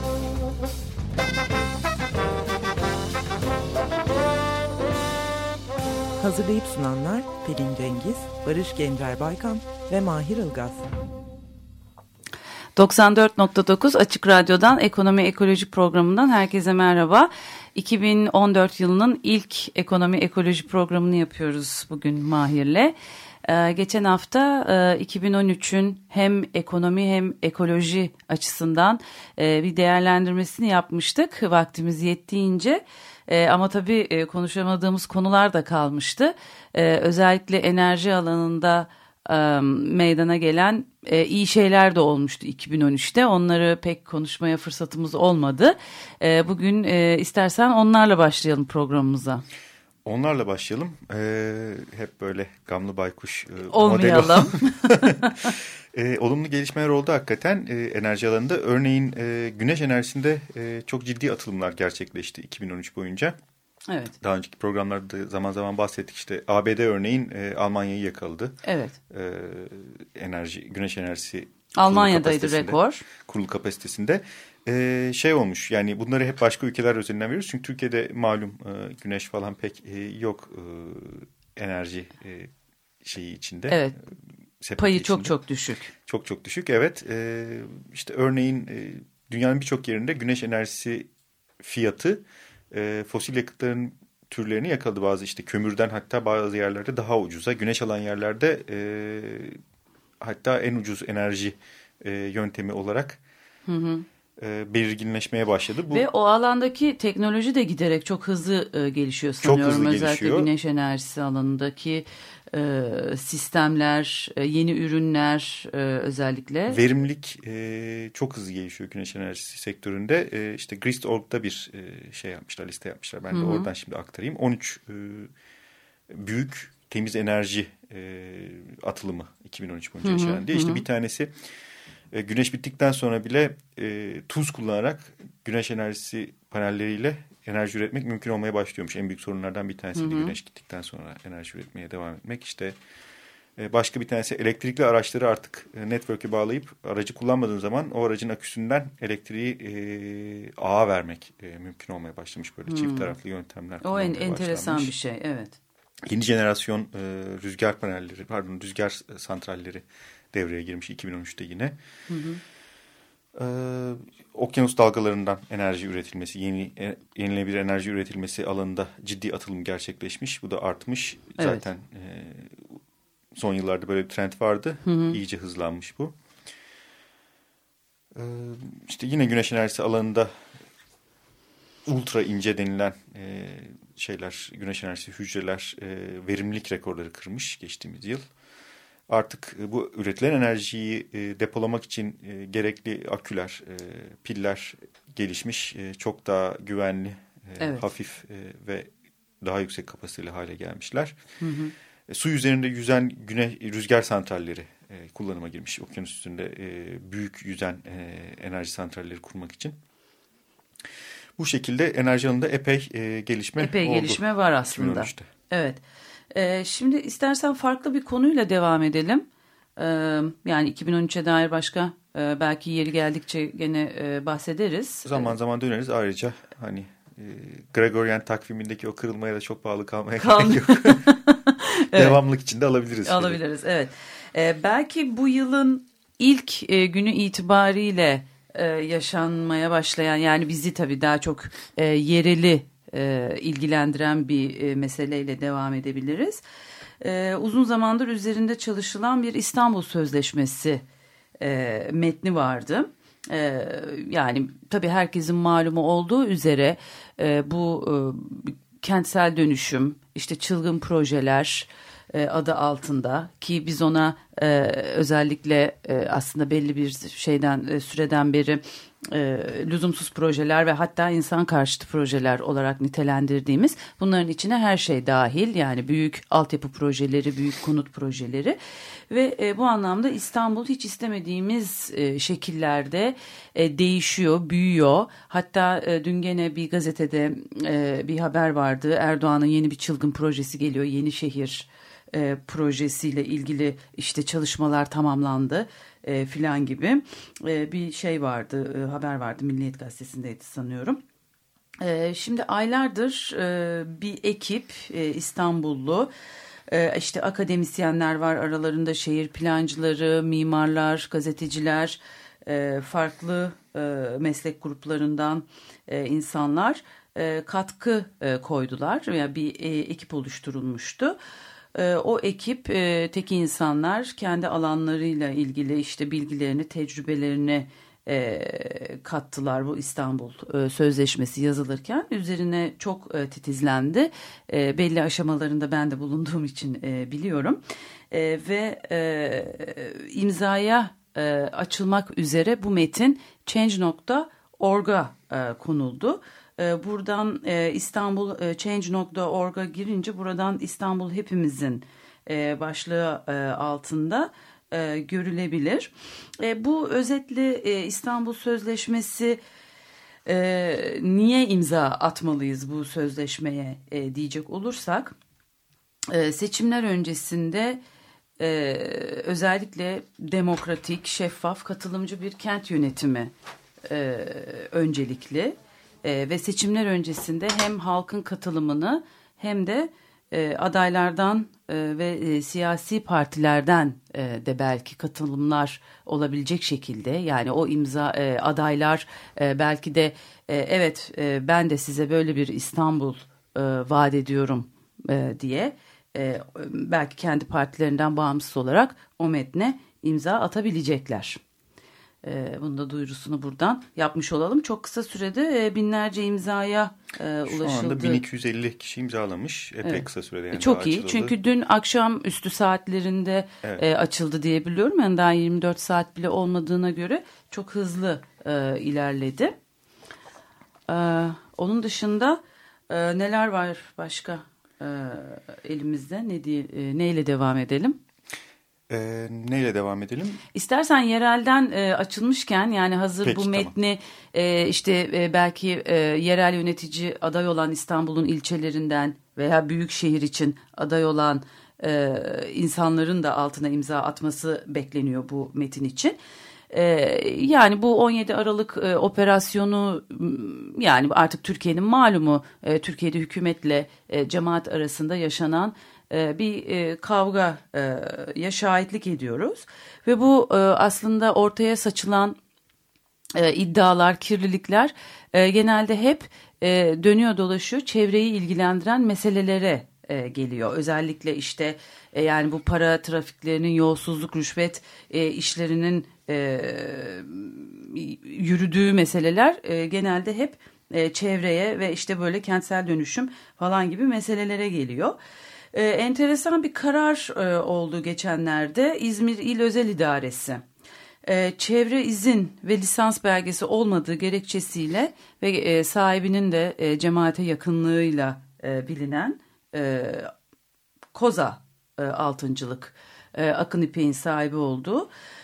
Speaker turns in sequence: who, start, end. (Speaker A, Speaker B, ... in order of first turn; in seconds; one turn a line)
Speaker A: 6.2-10.9
Speaker B: 12.8-49.4
Speaker C: 50.0-63.4
Speaker B: 53.7-55.5
Speaker B: 63.9-64.1
Speaker C: 64.2-68.6
Speaker B: 68.6-69.0
Speaker C: 69.1-82.5
Speaker B: 71.8-73.0
Speaker C: 83.0-84.1
Speaker B: 83.7-84.0
Speaker C: 84.6-85.4
Speaker B: 84.8-85.9
Speaker C: 86.1-91.1
Speaker C: 91.6-99.6
Speaker C: 100.2-103.2
Speaker B: 103.7-104.0
Speaker C: 104.4-106.1
Speaker B: 105.9-116.8
Speaker C: 109.4-110.5
Speaker C: 116.7-125.3
Speaker B: 123.3-123.7
Speaker C: 126.1-131.3
Speaker B: 130.0-130.8
Speaker C: 132.1-142.8
Speaker B: 140.0-140.3
Speaker C: 143.6-154.9
Speaker B: 152.7-153.1
Speaker B: 153.8-155.6
Speaker C: 156.0-161.8
Speaker B: 162.1-162.4
Speaker C: 163.3-172.8
Speaker B: 171.4-171.7
Speaker C: 173.3-176.1
Speaker B: 174.8-175.2
Speaker C: 178.1-180.3
Speaker C: 181.9-188.3
Speaker C: 189.1-198.9
Speaker C: 199.4-201.2
Speaker B: 201.4-201.7
Speaker C: 202.1-209.8
Speaker C: 211.4-215.3
Speaker B: 213.6-215.8
Speaker B: 216.3-219.3
Speaker B: 219.8-225.3
Speaker C: 225.1-231.2
Speaker B: 230.2-232.2
Speaker C: 231.9-233.4
Speaker B: 233.1-246.4
Speaker B: 247.0-250.8
Speaker B: 251.4-278.6
Speaker B: 279.1-301.0
Speaker B: 301.8-306.1
Speaker B: 306.7-321.2
Speaker B: 321.8-359.4
Speaker B: 360.3-365.2
Speaker B: 366.1-367.8
Speaker B: 368.4-373.3
Speaker B: 373.9-401.4
Speaker B: 402.2-408.2
Speaker C: 407.5-411.4
Speaker B: 409.8-419.5
Speaker B: 420.9-428.0
Speaker C: 428.9-430.4
Speaker B: 430.5-446.2
Speaker C: 433.2-433.7
Speaker B: 446.7-462.4
Speaker B: 463.4-485.2
Speaker B: 485.7-490.6
Speaker B: 491.2-500.3
Speaker B: 501.1-505.1